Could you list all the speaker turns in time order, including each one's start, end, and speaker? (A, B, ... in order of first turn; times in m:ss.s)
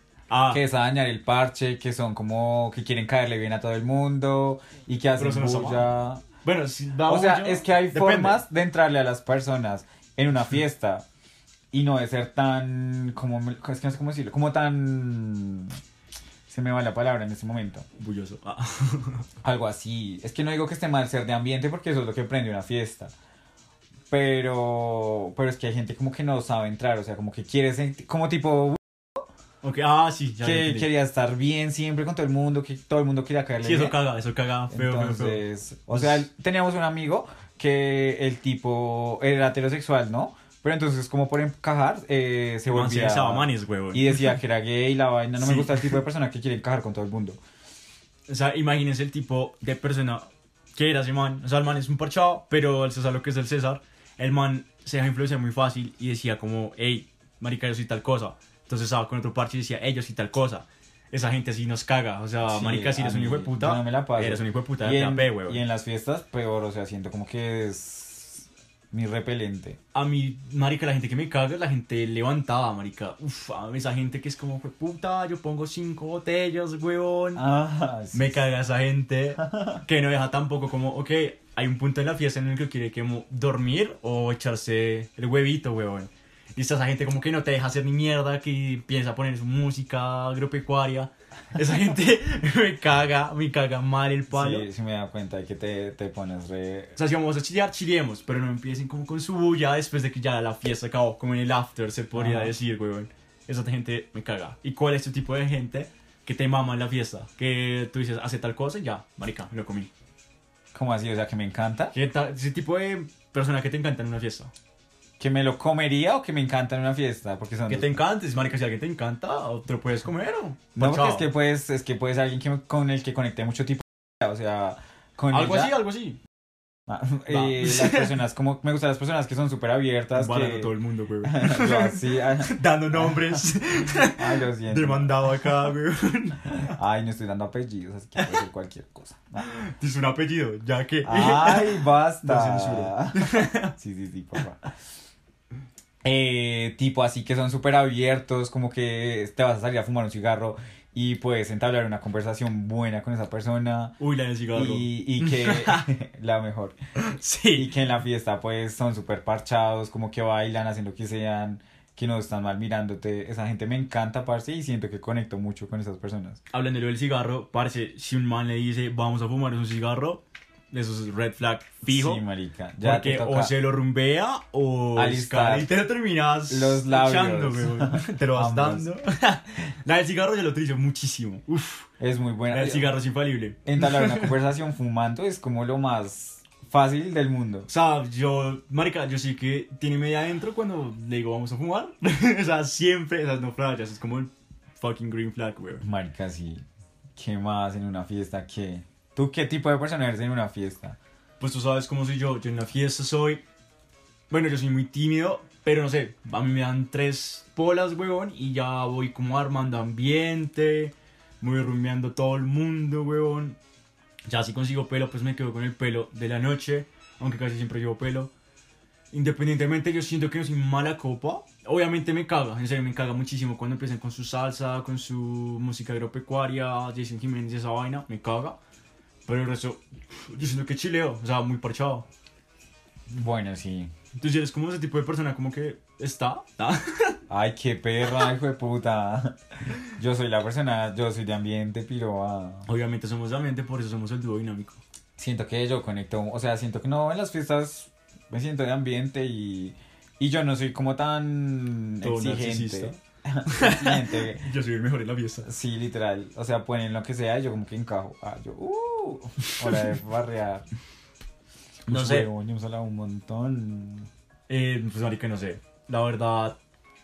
0:00.3-0:00.6 A
0:00.5-0:06.2 B
0:05.2-0:05.9 A
0:06.4-0:08.4 A
0:07.1-0:11.0 B
0:11.7-0:15.8 B
0:16.5-0:17.9 B
0:18.0-0:19.2 A
0:19.4-0:23.1 B
0:24.1-0:29.2 B
0:29.6-0:30.9 A
0:30.4-0:34.0 B
0:33.6-0:36.3 A
0:34.7-0:47.4 B
0:42.7-0:44.2 A
0:45.4-0:46.0 A
0:48.3-1:05.6 A
1:02.4-1:09.8 B
1:09.9-1:17.4 A
1:17.4-1:18.4 B
1:18.1-1:34.7 A
1:19.4-1:19.8 B
1:34.3-1:37.0 B
1:37.0-1:49.9 A
1:42.2-1:42.5 B
1:50.7-1:51.9 B
1:51.9-1:54.5 A
1:55.2-1:58.0 B
1:57.7-2:01.3 A
2:00.8-2:05.8 B
2:05.3-2:06.2 A
2:06.9-2:13.4 B
2:07.3-2:08.2 A
2:10.2-2:16.8 A
2:14.0-2:15.5 B
2:16.7-2:19.4 B
2:19.4-2:23.7 A
2:21.0-2:24.6 B
2:26.0-2:34.0 B
2:34.0-2:35.9 A
2:34.5-2:36.8 B
2:37.0-2:37.7 A
2:37.6-2:46.4 B
2:46.5-2:52.2 A
2:51.9-2:53.5 B
2:52.8-3:01.9 A
2:55.0-2:55.7 B
2:56.5-2:58.9 B
3:02.0-3:02.9 B
3:02.5-3:04.4 A
3:03.6-3:07.7 B
3:07.7-3:15.8 A
3:15.8-3:16.6 B
3:17.2-3:21.0 B
3:21.4-3:23.4 A
3:24.3-3:33.6 A
3:34.3-3:38.3 A
3:39.1-3:48.6 A
3:49.3-3:52.1 A
3:53.1-3:53.9 B
3:54.2-3:57.2 A
3:57.3-4:02.6 B
4:02.6-4:04.8 A
4:05.2-4:14.5 B
4:12.0-4:15.5 A
4:15.4-4:20.6 B
4:21.9-4:22.3 A
4:21.9-4:24.1 B
4:24.5-4:26.6 A